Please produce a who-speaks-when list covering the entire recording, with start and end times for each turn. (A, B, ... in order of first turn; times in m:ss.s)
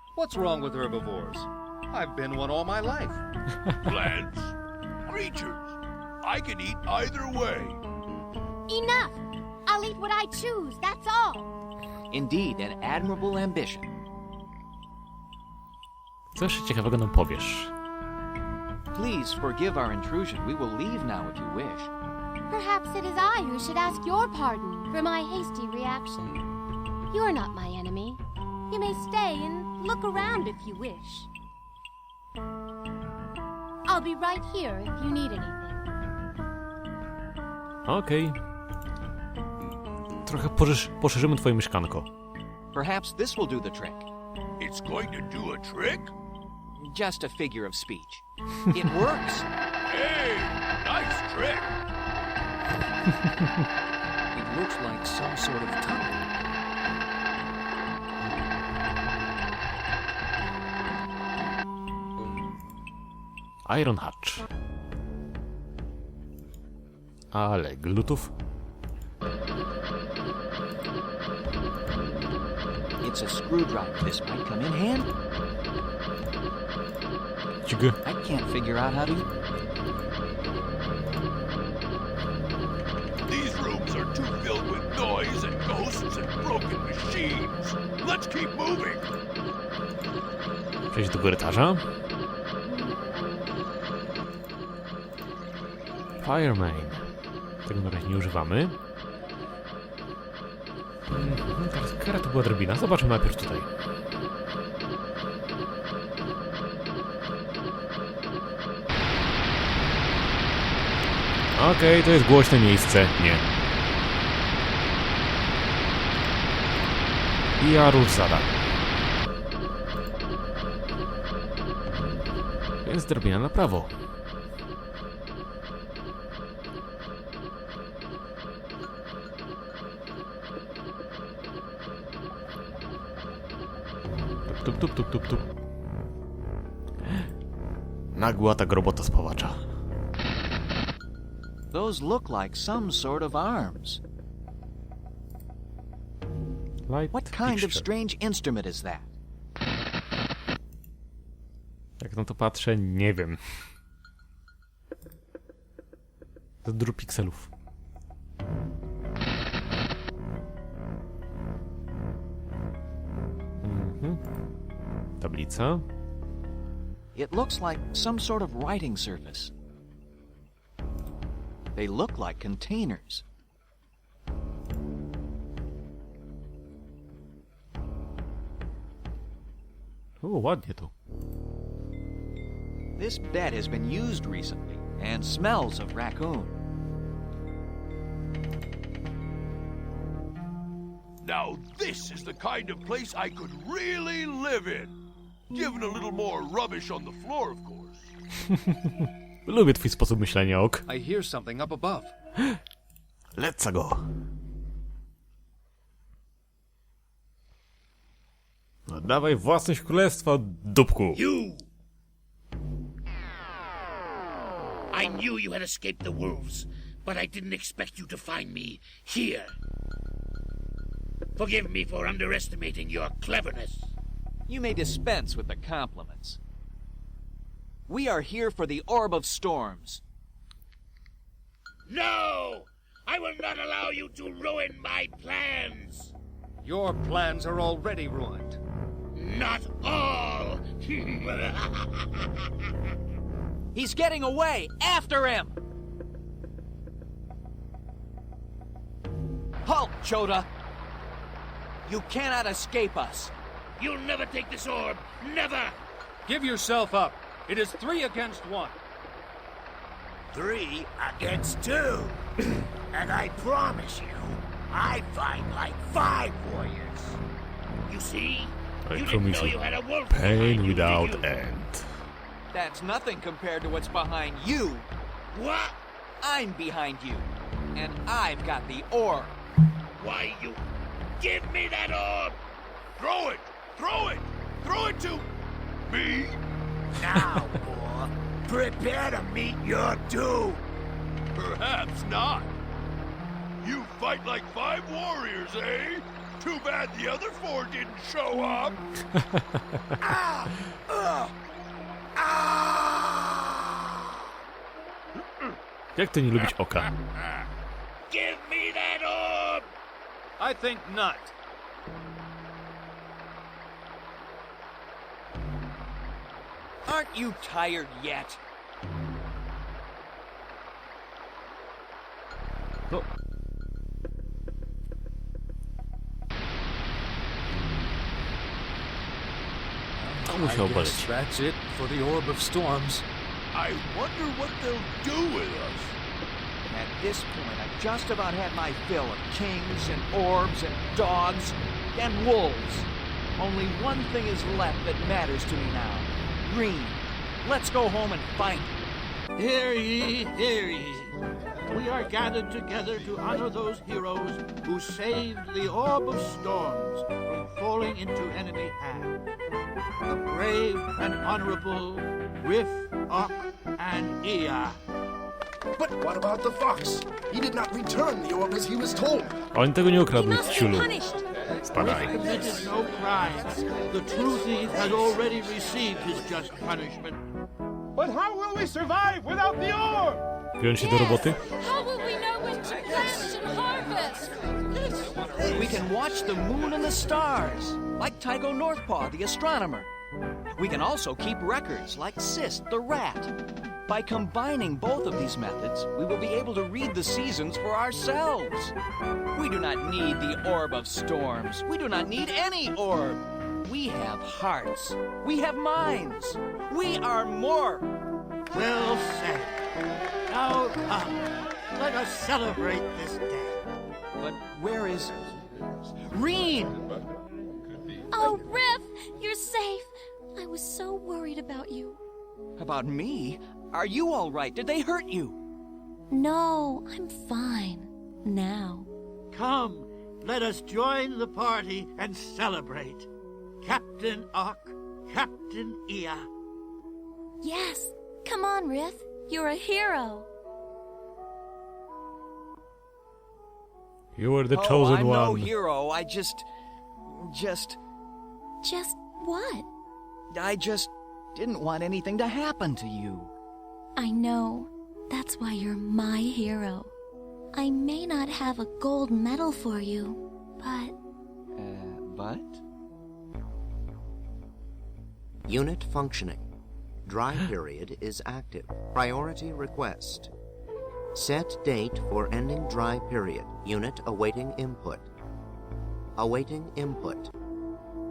0:00.2-0:03.2 A
0:03.8-0:04.5 B
0:05.1-0:07.8 B
0:08.7-0:11.5 C
0:12.1-0:13.9 D
0:16.3-0:17.7 E
0:18.9-0:21.9 D
0:22.5-0:26.4 C
0:27.1-0:31.3 C
0:33.8-0:35.8 C
0:37.8-0:38.4 E
0:40.2-0:42.1 E
0:42.7-0:44.1 D
0:44.6-0:46.1 B
0:46.8-0:49.5 D
0:49.9-0:51.7 B
0:54.3-0:56.2 A
1:03.6-1:04.5 E
1:07.3-1:08.3 E
1:13.0-1:15.1 D
1:17.6-1:18.0 E
1:18.0-1:19.3 D
1:23.3-1:29.1 B
1:30.9-1:31.8 E
1:36.2-1:37.0 E
1:37.6-1:38.8 E
1:41.1-1:43.7 E
1:51.5-1:53.4 E
1:57.6-1:58.5 E
2:02.8-2:03.9 E
2:14.5-2:15.4 E
2:18.1-2:19.6 E
2:21.7-2:24.0 D
2:26.8-2:27.8 E
2:27.1-2:29.1 D
2:32.0-2:33.6 E
2:36.6-2:37.5 E
2:43.6-2:44.2 E
2:45.2-2:45.8 E
2:47.1-2:49.5 D
2:51.7-2:53.2 D
3:00.2-3:00.9 E
3:03.0-3:06.5 D
3:11.2-3:14.9 B
3:15.5-3:18.1 B
3:18.5-3:20.8 E
3:20.9-3:22.1 A
3:23.4-3:24.0 E
3:28.9-3:31.2 E
3:31.1-3:31.6 F
3:34.9-3:39.6 F
3:41.3-3:43.9 F
3:44.5-3:46.4 D
3:47.9-3:50.0 D
3:51.9-3:56.1 F
3:56.6-3:58.6 A
3:59.1-4:02.3 F
4:03.7-4:05.6 D
4:09.6-4:10.5 D
4:11.8-4:13.3 D
4:13.8-4:15.8 F
4:16.2-4:18.8 A
4:20.3-4:27.2 F
4:27.8-4:31.3 F
4:28.9-4:29.6 E
4:30.1-4:31.9 E
4:32.5-4:34.9 D
4:35.3-4:35.8 F
4:36.2-4:39.3 D
4:40.0-4:40.6 F
4:41.2-4:42.4 F
4:43.0-4:45.2 B
4:45.9-4:46.4 B
4:47.0-4:50.6 F
4:47.1-4:47.5 B
4:51.3-4:52.5 B
4:53.6-4:58.8 B
5:00.1-5:01.3 F
5:02.2-5:03.7 F
5:06.0-5:06.9 E
5:08.1-5:09.7 F
5:10.4-5:11.3 A
5:16.8-5:18.4 D
5:30.0-5:33.0 A
5:30.2-5:31.1 E
5:33.5-5:35.9 B
5:36.7-5:48.7 D
5:49.4-5:51.1 G
5:51.7-5:59.1 G
6:00.1-6:04.8 G
6:05.8-6:09.3 H
6:09.5-6:10.9 E
6:10.1-6:10.8 I
6:10.6-6:11.2 C
6:11.6-6:12.2 E
6:11.8-6:17.2 G
6:18.0-6:20.2 A
6:20.6-6:21.4 E
6:20.8-6:25.1 I
6:25.5-6:29.9 D
6:30.6-6:33.3 D
6:33.9-6:38.7 D
6:39.3-6:47.8 D
6:48.5-6:49.6 G
6:50.3-6:51.2 G
6:51.8-6:53.6 G
6:54.2-6:55.1 D
6:56.1-6:56.8 D
6:58.1-7:02.0 I
7:02.6-7:05.4 D
7:06.1-7:08.9 I
7:09.3-7:13.1 G
7:13.6-7:16.3 G
7:17.4-7:20.3 I
7:24.2-7:25.5 E
7:24.5-7:26.4 D
7:27.1-7:27.8 D
7:28.6-7:29.7 I
7:30.3-7:33.3 D
7:34.0-7:36.9 I
7:37.5-7:40.9 I
7:41.6-7:42.6 D
7:45.5-7:46.4 J
7:47.0-7:50.3 J
7:51.1-7:55.0 J
7:56.2-7:57.3 J